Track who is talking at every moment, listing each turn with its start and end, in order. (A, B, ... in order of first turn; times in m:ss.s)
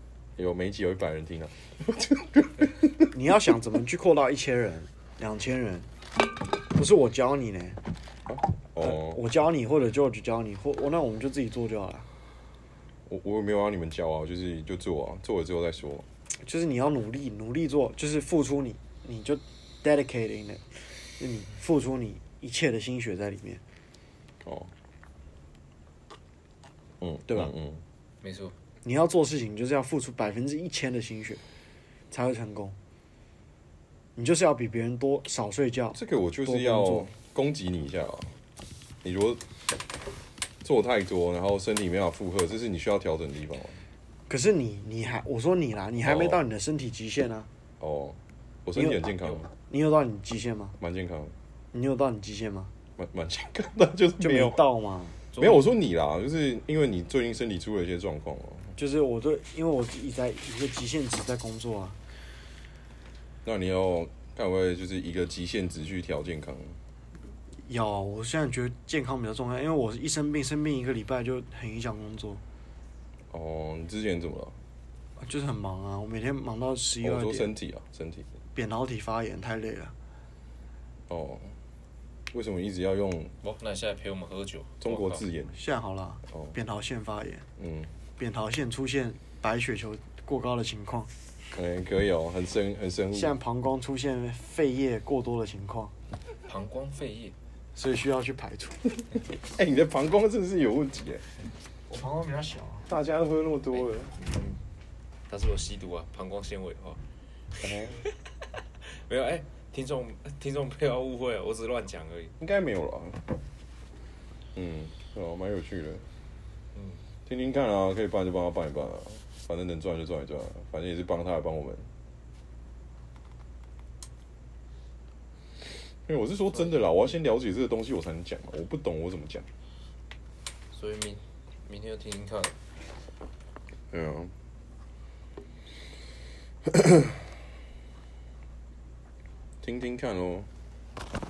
0:00.4-0:03.1 A
0:03.1-0:05.9 B
0:06.7-0:07.8 B
0:08.3-0:09.2 A
0:08.8-0:12.1 B
0:13.1-0:16.0 A
0:16.4-0:23.6 B
0:24.4-0:24.7 A
0:27.0-0:27.8 A
0:27.3-0:27.5 B
0:28.2-0:28.5 C
0:28.8-0:31.4 B
0:32.1-0:32.7 B
0:34.2-0:37.1 B
0:35.9-0:38.3 A
0:39.0-0:39.4 A
0:40.6-0:43.8 A
0:44.3-0:47.5 B
0:46.0-0:46.4 A
0:47.8-0:49.5 A
0:48.7-0:50.8 B
0:50.8-0:51.3 A
0:51.7-0:52.7 B
0:53.0-0:54.6 A
0:54.2-0:55.2 B
0:55.3-0:55.6 C
0:55.4-0:58.7 A
0:58.8-1:02.0 B
1:03.4-1:06.8 A
1:07.6-1:12.4 B
1:13.3-1:14.6 A
1:15.2-1:17.5 B
1:17.0-1:18.3 A
1:18.5-1:19.9 B
1:21.1-1:21.6 A
1:22.3-1:23.3 A
1:23.4-1:25.2 C
1:24.8-1:25.6 A
1:25.5-1:27.4 B
1:27.6-1:27.9 A
1:28.2-1:31.1 B
1:31.5-1:33.4 A
1:33.1-1:35.9 B
1:36.4-1:37.3 C
1:37.7-1:38.8 B
1:39.4-1:41.3 A
1:41.9-1:42.9 B
1:42.9-1:44.1 A
1:43.7-1:44.6 C
1:45.3-1:47.0 C
1:47.6-1:48.0 A
1:48.8-1:52.3 C
1:52.4-1:53.2 A
1:54.5-1:56.0 A
1:56.7-1:57.0 C
1:57.2-2:01.9 A
2:06.0-2:09.5 A
2:10.7-2:12.6 C
2:13.9-2:14.3 A
2:19.6-2:20.5 A